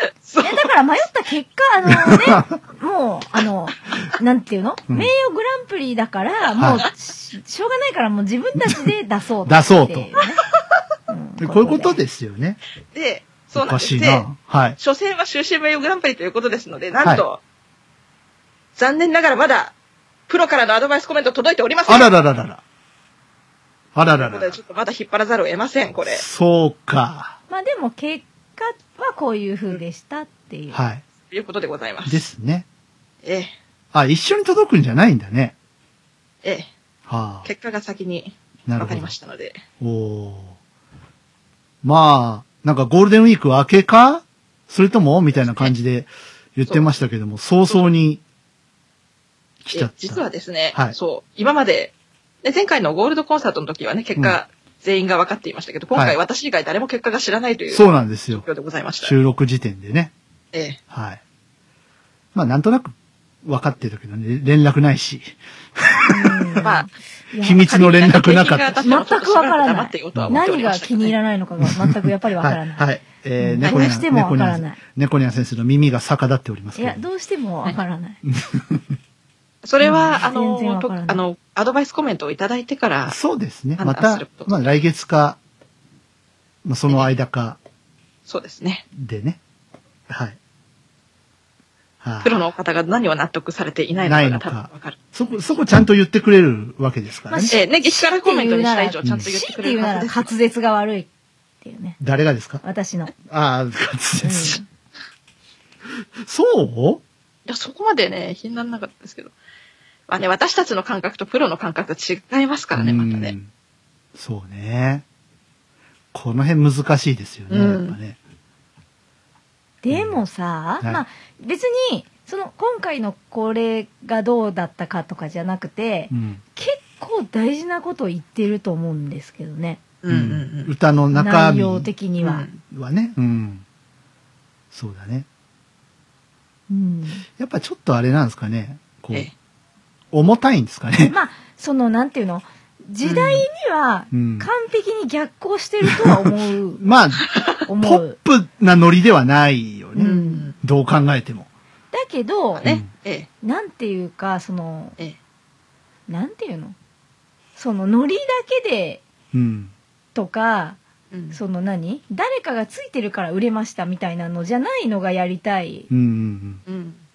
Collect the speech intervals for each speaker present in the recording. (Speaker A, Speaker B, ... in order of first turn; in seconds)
Speaker A: 0.2-0.7, 12.9-14.3, 14.8-17.4, 18.8-19.7, 20.3-22.1, 24.1-26.2, 31.3-32.2, 33.2-33.5, 36.4-36.7, 37.5-39.6, 49.7-59.1, 60.5-60.8, 67.6-71.2, 73.7-73.9, 79.6-83.2, 83.8-84.5, 88.3-88.8, 92.2-95.6, 97.5-100.3, 107.5-109.3, 110.1-113.3, 117.5-118.0, 130.0-130.7, 132.2-132.6, 143.0-143.5, 150.0-150.5, 152.6-153.3, 161.1-161.4, 166.7-167.0
Speaker B: 0.4-10.4, 11.1-12.0, 27.5-30.8, 66.1-67.7, 68.8-72.9, 73.4-74.8, 76.8-78.2, 79.8-81.2, 97.3-101.1, 101.6-102.0, 102.6-103.1, 104.2-104.7, 119.8-129.8, 131.1-132.5, 136.7-137.3, 141.0-146.8, 147.7-148.2, 150.0-150.5, 151.9-152.7, 153.4-155.0, 156.1-156.8, 157.6-159.1, 160.2-160.8, 161.3-165.9
Speaker C: 1.9-2.5, 6.6-6.9, 9.4-10.1, 11.4-12.6, 13.6-14.8, 21.9-22.6, 23.9-24.6, 26.1-27.4, 30.7-31.0, 32.1-32.7, 33.9-35.5, 37.1-37.5, 38.7-39.1, 39.8-40.6, 41.8-48.2, 49.6-51.0, 55.9-56.2, 57.7-58.5, 59.0-60.1, 60.9-61.2, 62.3-66.6, 67.4-68.9, 70.1-70.4, 71.6-77.0, 78.3-78.8, 83.1-85.4, 86.7-87.6, 89.0-89.4, 90.1-90.4, 92.0-92.5, 94.0-97.5, 99.0-99.3, 102.0-102.6, 103.3-104.6, 106.2-107.0, 112.7-113.5, 114.2-115.0, 116.1-118.2, 119.9-120.2, 126.1-126.4, 130.1-131.9, 132.7-133.6, 134.7-135.3, 137.4-139.3, 140.1-141.2, 144.1-144.5, 145.9-146.2, 146.8-151.5, 159.3-159.7, 165.9-166.6